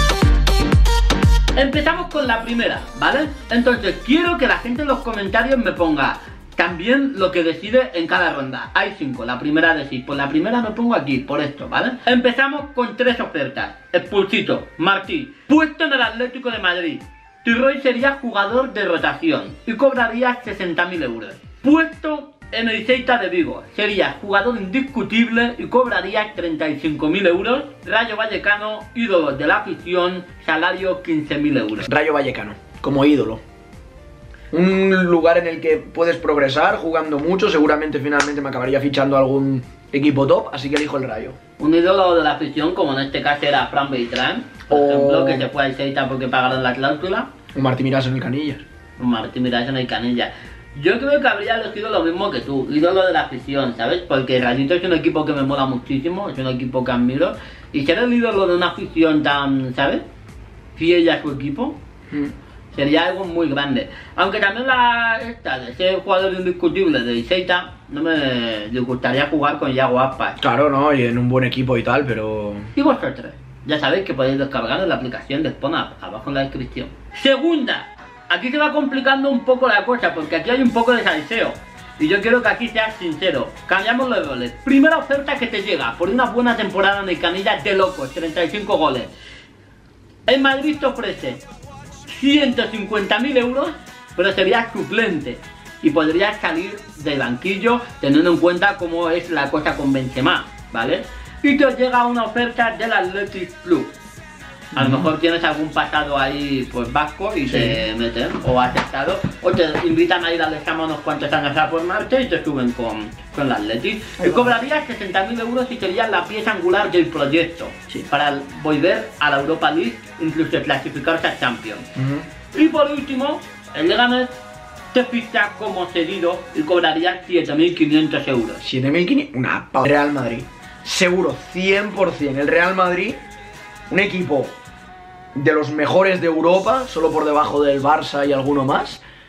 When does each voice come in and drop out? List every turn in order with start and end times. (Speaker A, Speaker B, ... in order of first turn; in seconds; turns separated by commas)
Speaker A: 1.5-31.9, Speaker B: 31.9-33.4, Speaker B: 34.5-41.4, Speaker A: 41.6-47.3, Speaker B: 44.7-45.5, Speaker B: 47.5-48.6, Speaker A: 49.0-60.0, Speaker A: 60.8-61.8, Speaker A: 62.7-70.4, Speaker B: 70.4-72.7, Speaker A: 72.7-89.1, Speaker A: 90.3-91.4, Speaker A: 92.0-103.9, Speaker A: 104.7-121.9, Speaker B: 104.7-105.1, Speaker B: 107.5-107.8, Speaker B: 114.2-114.6, Speaker B: 121.9-122.2, Speaker A: 122.5-124.4, Speaker A: 124.9-128.6, Speaker B: 128.6-133.2, Speaker B: 133.9-134.5, Speaker B: 135.3-139.0